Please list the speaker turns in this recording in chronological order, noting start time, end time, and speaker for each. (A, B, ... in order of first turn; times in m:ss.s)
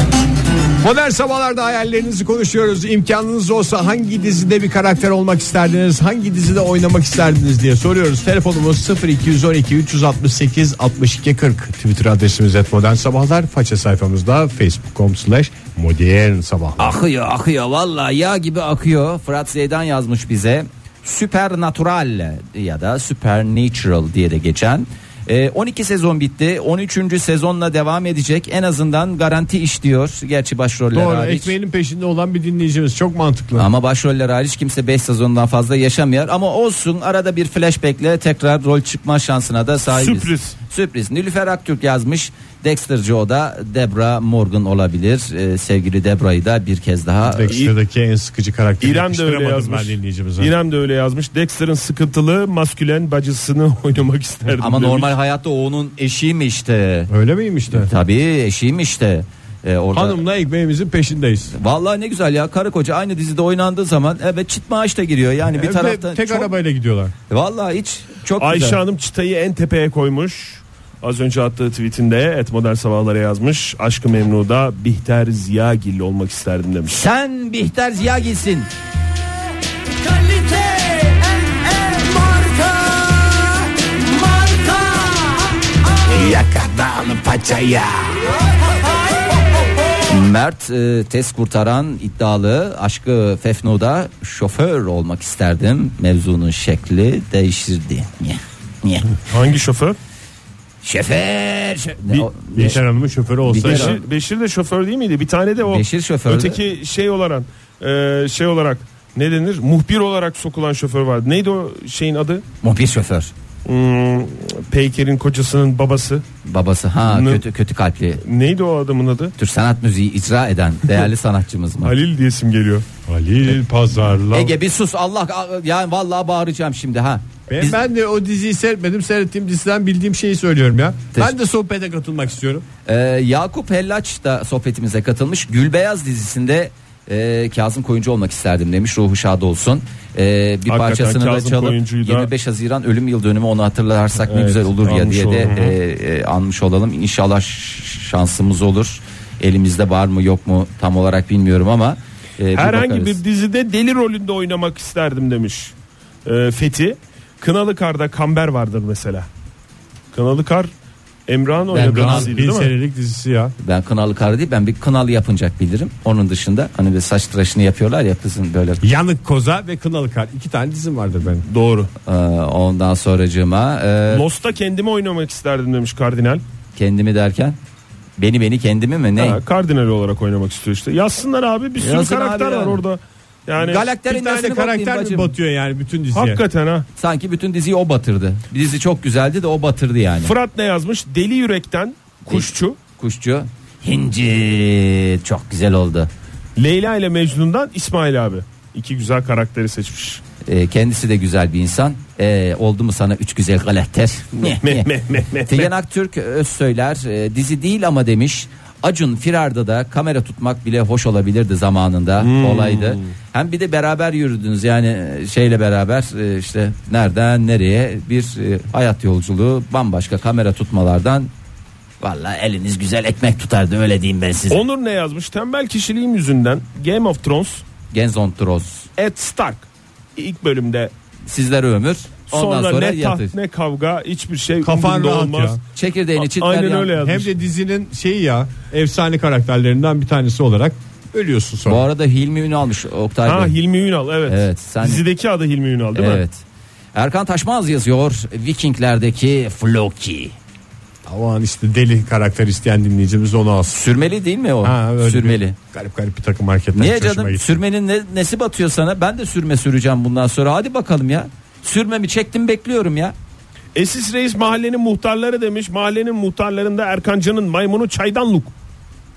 0:00.8-0:17.0 A
0:16.8-0:31.5 B
0:30.9-0:33.7 A
0:33.6-0:47.5 B
0:39.9-0:40.6 C
0:47.2-0:50.5 A
0:47.5-0:47.7 C
0:48.8-0:55.1 C
0:54.6-0:57.1 B
0:57.1-0:57.9 A
0:57.7-1:00.2 B
0:59.9-1:01.5 A
1:01.5-1:06.5 B
1:05.5-1:07.1 A
1:07.3-1:08.8 B
1:08.4-1:17.0 C
1:16.9-1:18.7 B
1:20.1-1:23.6 B
1:24.2-1:25.4 B
1:26.0-1:28.3 B
1:30.1-1:39.1 B
1:39.2-1:40.0 C
1:40.8-1:42.8 B
1:42.2-1:44.0 A
1:43.4-1:44.0 B
1:43.6-1:52.4 C
1:45.7-1:46.6 B
1:52.6-1:53.3 B
1:53.6-1:56.2 C
1:56.4-1:58.2 B
1:57.0-1:57.4 C
1:58.2-1:59.3 C
1:59.4-2:01.9 B
2:01.8-2:02.8 C
2:03.1-2:04.5 A
2:04.3-2:07.8 B
2:07.5-2:12.6 A
2:12.8-2:33.2 B
2:20.7-2:22.3 C
2:24.3-2:25.7 C
2:32.5-2:35.7 C
2:36.2-2:39.3 C
2:40.1-2:40.7 C
2:41.3-2:42.7 C
2:41.7-2:42.3 B
2:41.7-2:43.5 A
2:43.6-2:48.8 B
2:48.8-2:51.4 A
2:51.5-2:51.9 C
2:52.0-2:54.2 B
2:54.1-2:56.4 C
2:56.8-2:57.6 B
2:58.2-2:59.4 B
2:59.2-3:03.8 C
3:01.8-3:02.8 B
3:03.6-3:05.3 B
3:04.0-3:06.4 A
3:06.1-3:06.9 C
3:07.0-3:10.3 B
3:10.2-3:12.8 C
3:12.3-3:16.1 B
3:16.6-3:20.2 C
3:20.4-3:24.9 B
3:24.4-3:25.7 C
3:25.4-3:41.3 B
3:32.2-3:33.1 C
3:42.0-3:44.6 B
3:44.5-3:47.6 C
3:47.9-3:48.9 B
3:49.0-3:50.9 C
3:51.3-3:53.3 B
3:52.3-3:55.6 C
3:54.6-3:55.6 A
3:55.7-3:56.9 B
3:56.1-3:57.3 C
3:57.0-4:01.8 A
4:01.6-4:03.6 B
4:03.2-4:06.2 C
4:04.2-4:05.0 B
4:05.9-4:10.3 B
4:11.0-4:13.8 A
4:13.7-4:15.6 B
4:14.6-4:17.6 A
4:16.7-4:23.1 B
4:23.7-4:28.5 C